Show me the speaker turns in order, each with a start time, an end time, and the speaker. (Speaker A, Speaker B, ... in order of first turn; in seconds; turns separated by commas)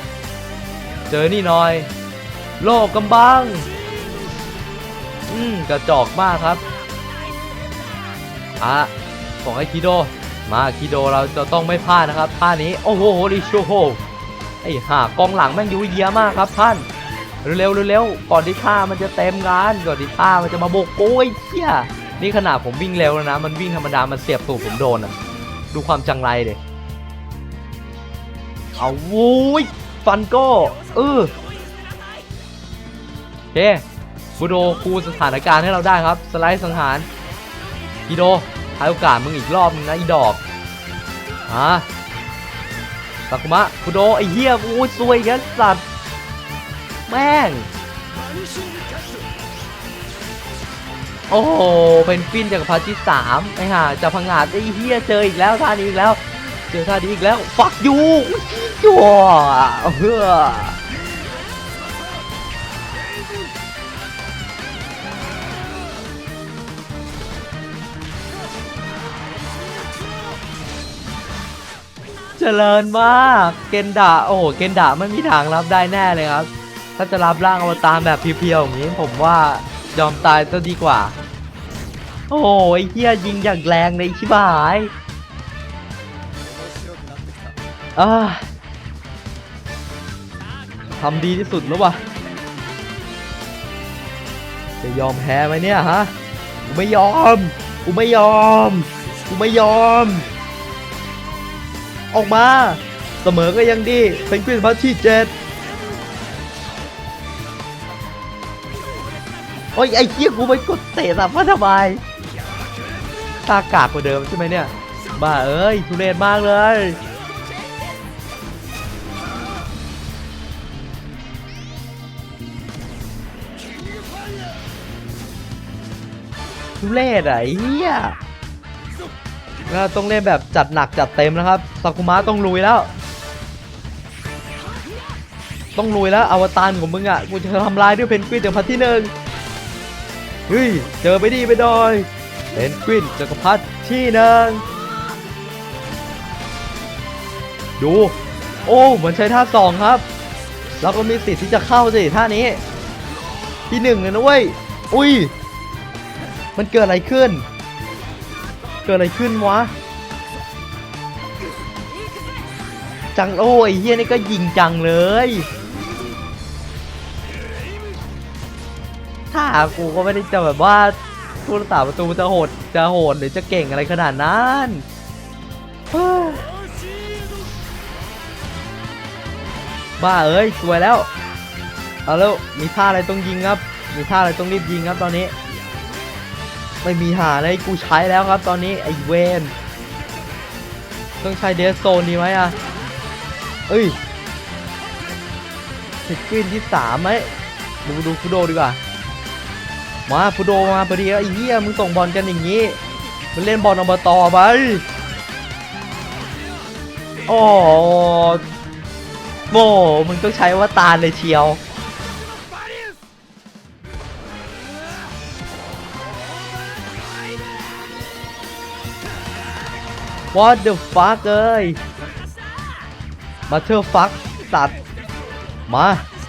Speaker A: 1.1-1.9, Speaker A: 2.6-3.7, Speaker A: 5.3-6.6, Speaker A: 8.6-8.9, Speaker A: 9.4-14.0, Speaker A: 14.6-16.8, Speaker A: 17.4-25.1, Speaker A: 25.7-26.6, Speaker A: 28.8-31.3, Speaker A: 33.5-33.8, Speaker A: 34.4-37.1, Speaker A: 38.1-40.4, Speaker A: 41.5-41.9, Speaker A: 43.3-45.8, Speaker A: 47.1-47.7, Speaker A: 51.3-60.8, Speaker A: 72.4-81.1, Speaker A: 82.3-84.9, Speaker A: 88.0-88.4, Speaker A: 91.0-92.0, Speaker A: 94.8-96.1, Speaker A: 96.7-100.3, Speaker A: 102.1-105.3, Speaker A: 109.7-112.0, Speaker A: 113.4-117.0, Speaker A: 126.8-128.2, Speaker A: 129.7-132.9, Speaker A: 135.8-139.1, Speaker A: 140.5-144.6, Speaker A: 147.8-148.1, Speaker A: 148.7-150.0, Speaker A: 150.8-152.6, Speaker A: 153.7-155.3, Speaker A: 156.6-157.4, Speaker A: 158.8-159.7, Speaker A: 163.1-165.5, Speaker A: 169.3-174.8, Speaker A: 175.9-176.4, Speaker A: 180.0-181.1, Speaker A: 182.1-185.3, Speaker A: 186.8-189.5, Speaker A: 191.2-192.6, Speaker A: 193.7-194.0, Speaker A: 196.1-197.3, Speaker A: 197.8-198.8, Speaker A: 200.1-202.8, Speaker A: 203.3-204.8, Speaker A: 207.3-208.4, Speaker A: 209.5-211.6, Speaker A: 220.3-221.8, Speaker A: 223.5-224.8, Speaker A: 225.7-226.1